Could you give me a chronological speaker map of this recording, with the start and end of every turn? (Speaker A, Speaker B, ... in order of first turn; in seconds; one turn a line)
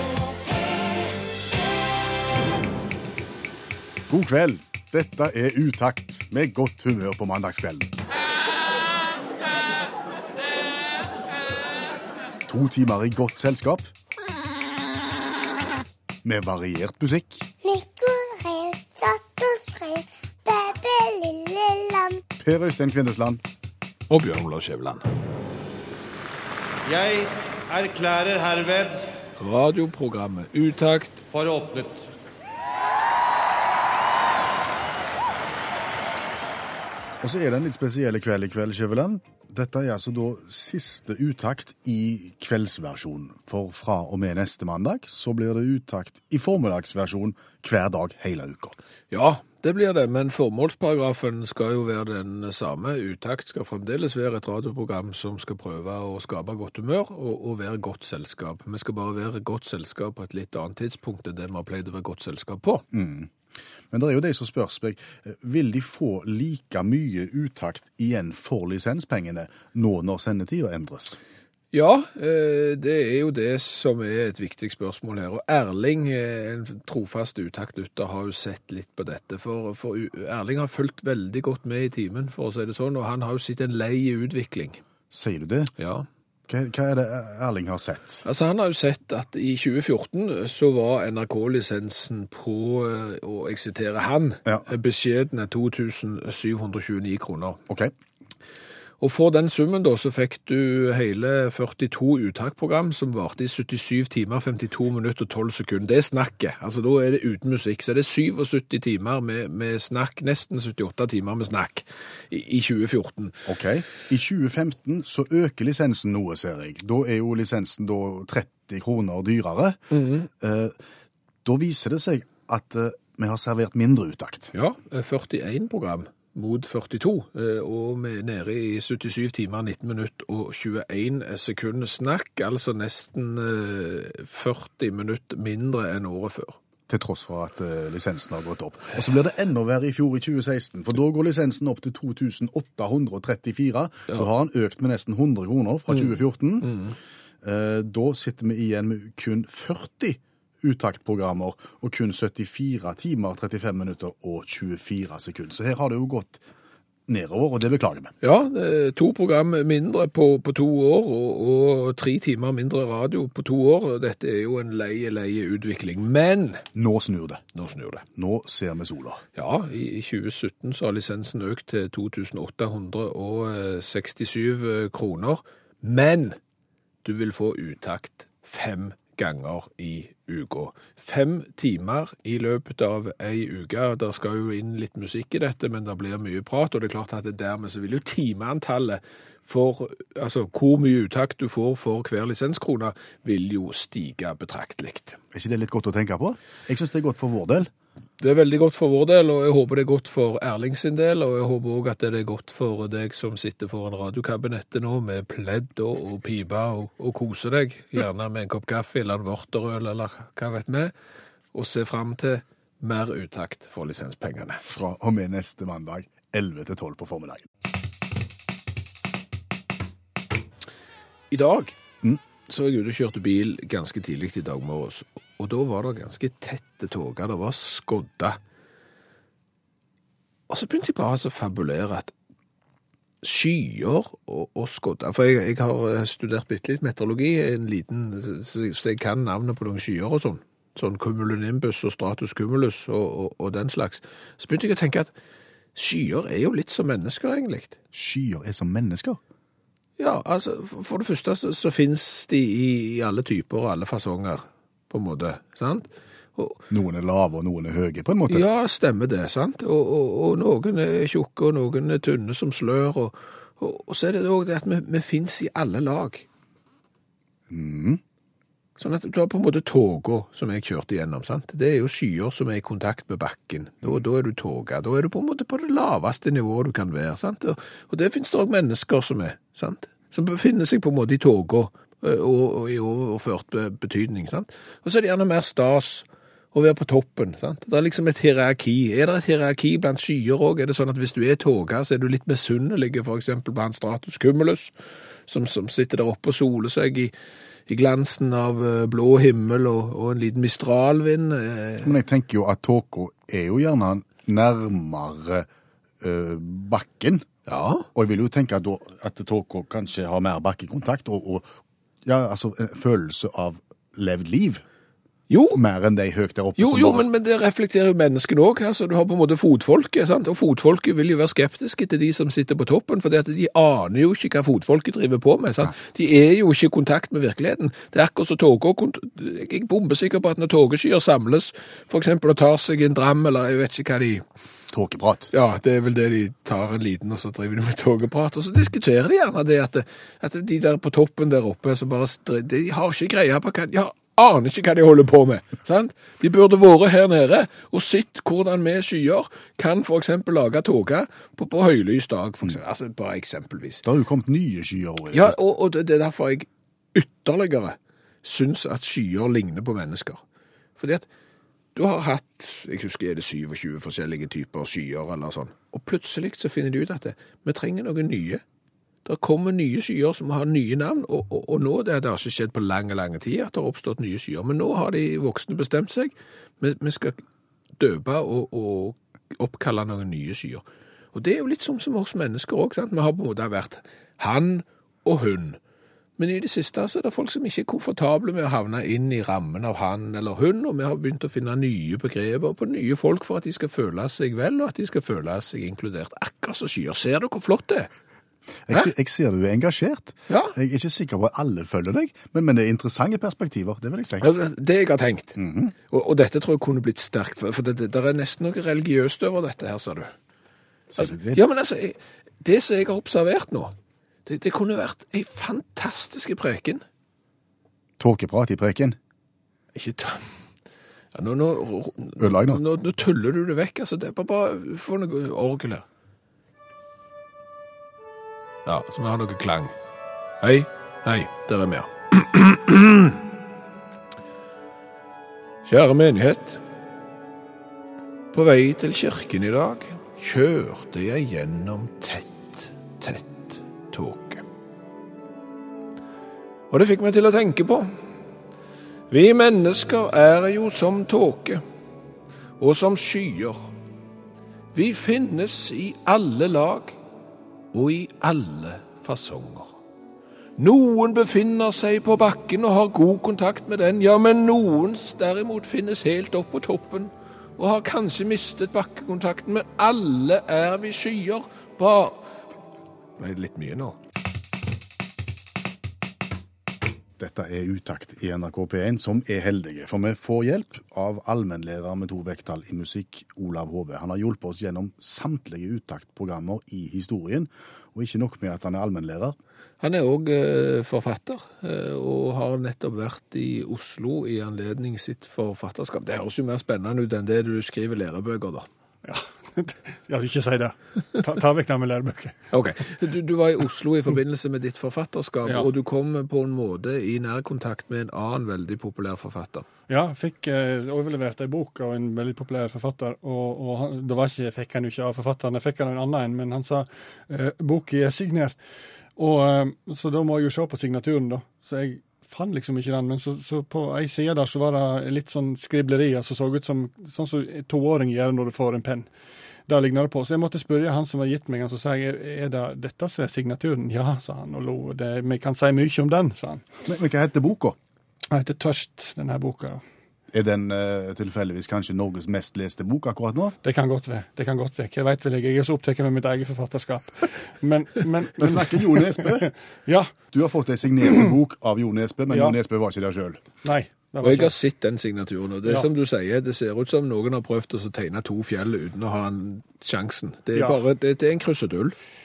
Speaker A: 4.1-7.9
Speaker A: 12.5-13.9
Speaker A: 16.2-17.5
Speaker B: 17.6-22.2
Speaker A: 22.4-23.4
Speaker C: 24.1-25.0
Speaker D: 26.8-29.1
Speaker C: 29.4-31.2
Speaker D: 31.3-32.1
Speaker A: 37.2-48.8
Speaker C: 49.1-62.8
Speaker A: 62.9-63.3
Speaker A: 63.9-71.2
Speaker C: 71.7-84.8
Speaker A: 85.1-85.7
Speaker C: 85.8-86.1
Speaker A: 86.5-88.2
Speaker C: 88.2-97.6
Speaker C: 99.0-113.5
Speaker A: 113.5-119.8
Speaker C: 119.9-120.3
Speaker A: 120.4-120.7
Speaker A: 121.4-124.5
Speaker C: 124.5-136.6
Speaker A: 136.9-146.7
Speaker C: 145.9-146.9
Speaker A: 147.4-156.4
Speaker A: 157.1-158.1
Speaker C: 158.2-166.6
Speaker A: 166.7-167.4
Speaker C: 167.5-168.0
Speaker A: 168.1-169.2
Speaker C: 169.3-176.4
Speaker C: 177.0-195.2
Speaker A: 195.3-197.7
Speaker C: 198.2-210.9
Speaker C: 211.5-214.6
Speaker A: 214.6-217.5
Speaker C: 221.3-221.8
Speaker C: 222.4-228.4
Speaker C: 230.5-232.1
Speaker C: 233.2-245.1
Speaker C: 245.7-247.8
Speaker A: 247.9-249.2
Speaker C: 250.0-256.6
Speaker A: 256.7-258.4
Speaker C: 258.3-266.2
Speaker A: 267.5-268.0
Speaker C: 268.8-294.7
Speaker C: 295.3-297.1
Speaker C: 297.7-301.9
Speaker A: 301.8-305.5
Speaker A: 306.0-307.3
Speaker C: 307.5-307.9
Speaker A: 307.9-311.5
Speaker A: 312.0-314.6
Speaker C: 315.3-315.6
Speaker A: 315.5-317.0
Speaker C: 316.6-334.2
Speaker A: 334.7-335.3
Speaker C: 335.3-353.8
Speaker A: 353.8-355.4
Speaker C: 355.1-360.2
Speaker C: 360.8-361.1
Speaker C: 361.7-368.4
Speaker C: 369.0-377.2
Speaker C: 377.8-380.6
Speaker C: 381.1-385.6
Speaker C: 386.2-397.9
Speaker A: 398.6-404.3
Speaker C: 400.3-400.6
Speaker C: 404.2-410.1
Speaker A: 405.4-405.7
Speaker A: 410.9-411.4
Speaker C: 411.0-413.7
Speaker C: 414.2-416.8
Speaker A: 418.0-419.0
Speaker C: 419.7-420.4
Speaker C: 421.1-425.9
Speaker A: 422.2-422.6
Speaker C: 428.6-429.7
Speaker C: 430.4-433.2
Speaker C: 435.6-436.6
Speaker C: 438.3-444.4
Speaker C: 446.7-447.9
Speaker C: 449.1-451.6
Speaker C: 452.6-453.7
Speaker C: 454.7-457.0
Speaker C: 457.7-459.7
Speaker C: 460.6-472.3
Speaker C: 473.2-474.0
Speaker A: 477.2-489.4
Speaker C: 489.8-498.7
Speaker E: 499.0-502.4
Speaker C: 502.5-509.6
Speaker E: 509.9-518.6
Speaker E: 519.1-529.1
Speaker E: 529.7-536.6
Speaker A: 536.9-537.8
Speaker E: 538.3-539.8
Speaker A: 540.3-543.5
Speaker E: 543.6-550.1
Speaker A: 548.4-549.5
Speaker A: 550.3-553.4
Speaker E: 552.3-552.6
Speaker E: 553.6-554.5
Speaker C: 554.2-562.0
Speaker E: 560.5-560.8